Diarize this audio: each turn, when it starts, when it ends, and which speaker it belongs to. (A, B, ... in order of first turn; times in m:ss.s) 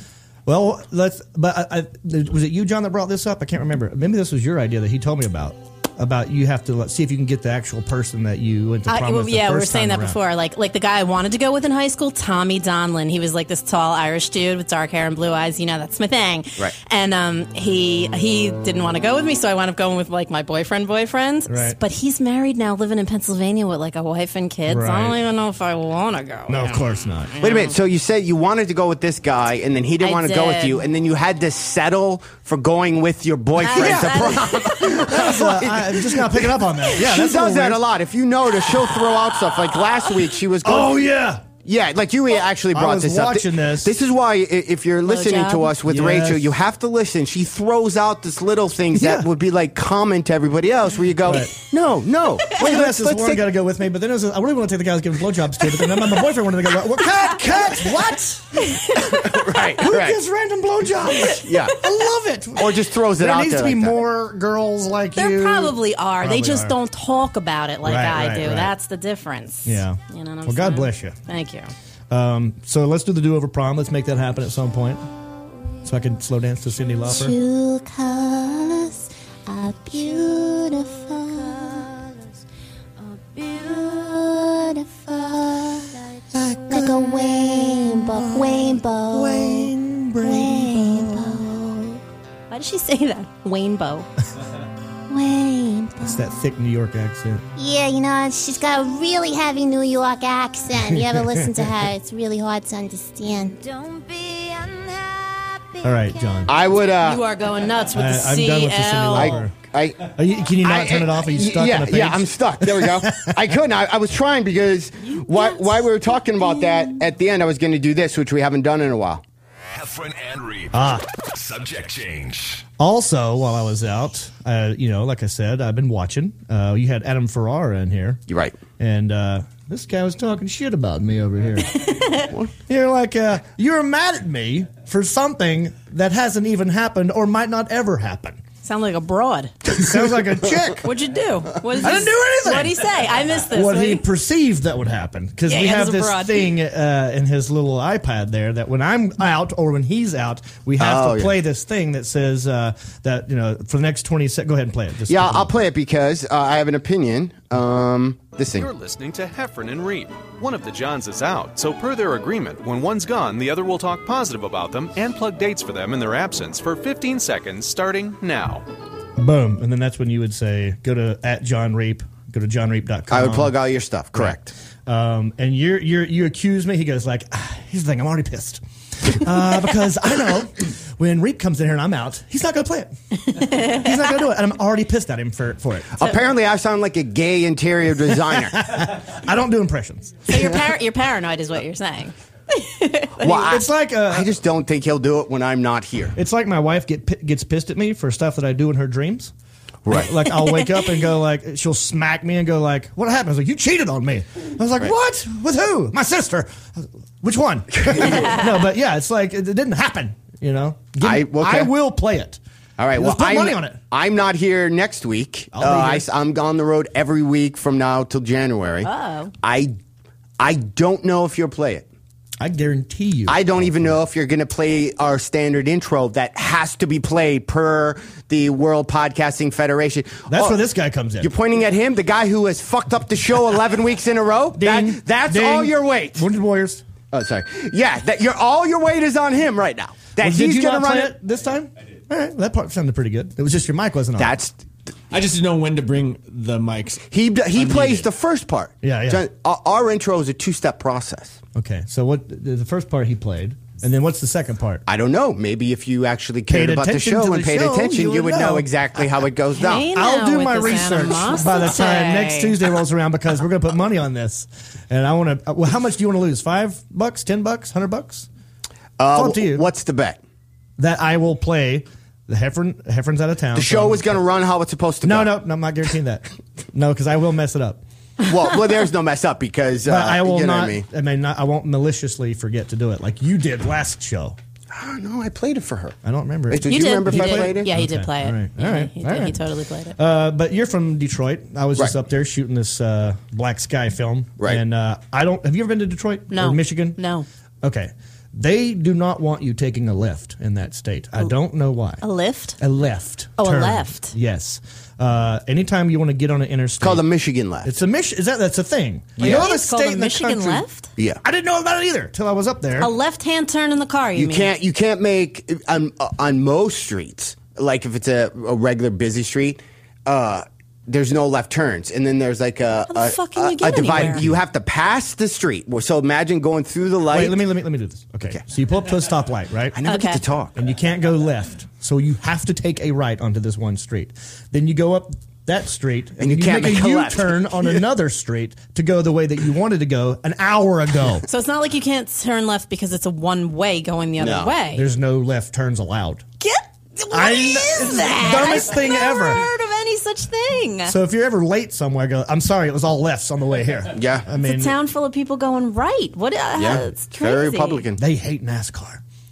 0:00.5-0:10.2 A
0:08.9-0:27.8 B
0:21.5-0:21.8 A
0:24.7-0:25.2 A
0:26.5-0:27.3 A
0:27.4-0:41.0 C
0:30.0-0:30.8 B
0:33.6-0:35.2 B
0:33.7-0:37.8 A
0:40.6-0:41.4 A
0:41.6-0:53.4 C
0:42.7-0:44.0 A
0:45.0-0:45.7 B
0:45.8-0:46.5 A
0:48.9-0:49.3 A
0:51.2-0:51.5 A
0:52.5-0:58.8 A
0:58.7-0:59.2 B
0:59.0-1:00.2 C
0:59.8-1:06.8 A
1:01.3-1:01.8 C
1:02.6-1:04.0 C
1:05.1-1:11.7 B
1:07.8-1:08.7 A
1:09.6-1:11.2 A
1:12.1-1:15.0 A
1:15.8-1:17.4 A
1:17.0-1:22.0 D
1:23.3-1:25.9 D
1:26.3-1:31.5 A
1:26.7-1:29.7 D
1:30.2-1:32.0 D
1:32.5-1:34.1 B
1:35.1-1:36.2 D
1:36.0-1:37.5 A
1:37.6-1:45.7 D
1:40.8-1:41.7 A
1:45.8-1:46.5 A
1:46.5-1:47.2 C
1:47.0-1:49.4 B
1:47.9-1:49.5 A
1:49.1-1:59.2 C
1:50.0-1:53.3 A
1:55.1-1:55.6 B
1:59.7-2:02.7 E
2:00.7-2:01.0 A
2:02.8-2:08.2 A
2:08.3-2:08.5 C
2:08.8-2:11.8 A
2:11.8-2:12.3 B
2:12.7-2:18.4 A
2:18.6-2:19.5 B
2:19.7-2:20.9 A
2:20.8-2:24.0 B
2:21.8-2:22.9 A
2:23.5-2:35.5 A
2:25.5-2:26.5 B
2:30.8-2:31.3 C
2:35.1-2:38.7 C
2:38.5-2:48.6 F
2:49.2-2:53.6 A
2:53.1-2:54.5 C
2:54.1-3:06.0 A
3:03.4-3:03.9 B
3:06.0-3:08.6 C
3:08.3-3:10.4 A
3:10.3-3:13.5 B
3:13.2-3:16.1 C
3:13.4-3:14.3 A
3:16.2-3:19.3 A
3:19.8-3:20.1 C
3:19.9-3:32.4 A
3:20.4-3:20.7 B
3:27.8-3:28.4 C
3:31.0-3:31.7 C
3:32.8-3:38.9 C
3:32.9-3:33.8 A
3:35.5-3:36.1 A
3:38.8-3:39.3 B
3:39.4-3:39.8 C
3:40.4-3:41.9 C
3:42.4-3:43.9 A
3:43.3-3:50.6 C
3:50.3-3:51.3 A
3:51.2-3:56.2 C
3:54.5-3:56.8 A
3:57.1-4:01.1 C
4:00.2-4:04.4 A
4:04.2-4:04.6 C
4:05.1-4:08.0 G
4:07.1-4:11.4 C
4:08.8-4:09.2 A
4:11.5-4:14.8 A
4:14.9-4:19.9 C
4:16.5-4:18.7 A
4:19.6-4:22.6 B
4:19.8-4:28.3 A
4:29.0-4:30.2 C
4:29.1-4:29.6 A
4:30.8-4:34.2 A
4:33.5-4:35.3 C
4:35.0-4:37.8 A
4:38.2-4:40.8 C
4:39.9-4:44.4 A
4:44.7-4:46.0 C
4:46.0-4:49.4 A
4:46.5-4:47.7 C
4:46.6-4:50.0 B
4:50.0-4:57.0 A
4:56.3-4:57.2 B
4:57.6-5:02.0 A
5:02.0-5:02.6 B
5:02.6-5:07.0 A
5:03.4-5:04.1 B
5:06.8-5:07.7 C
5:07.6-5:10.6 A
5:09.2-5:09.5 C
5:09.2-5:10.9 B
5:11.2-5:12.9 A
5:12.8-5:14.5 B
5:14.2-5:27.4 C
5:22.9-5:24.2 B
5:23.8-5:24.4 A
5:27.1-5:29.8 A
5:29.7-5:30.6 C
5:29.8-5:30.2 B
5:30.6-5:41.2 A
5:36.2-5:37.8 C
5:41.3-5:44.8 B
5:44.2-5:44.5 C
5:44.8-5:46.2 A
5:46.4-5:51.0 B
5:47.1-5:49.5 A
5:50.9-5:54.8 A
5:53.9-5:54.3 C
5:54.4-5:57.8 B
5:56.6-5:58.0 C
5:58.0-5:59.0 A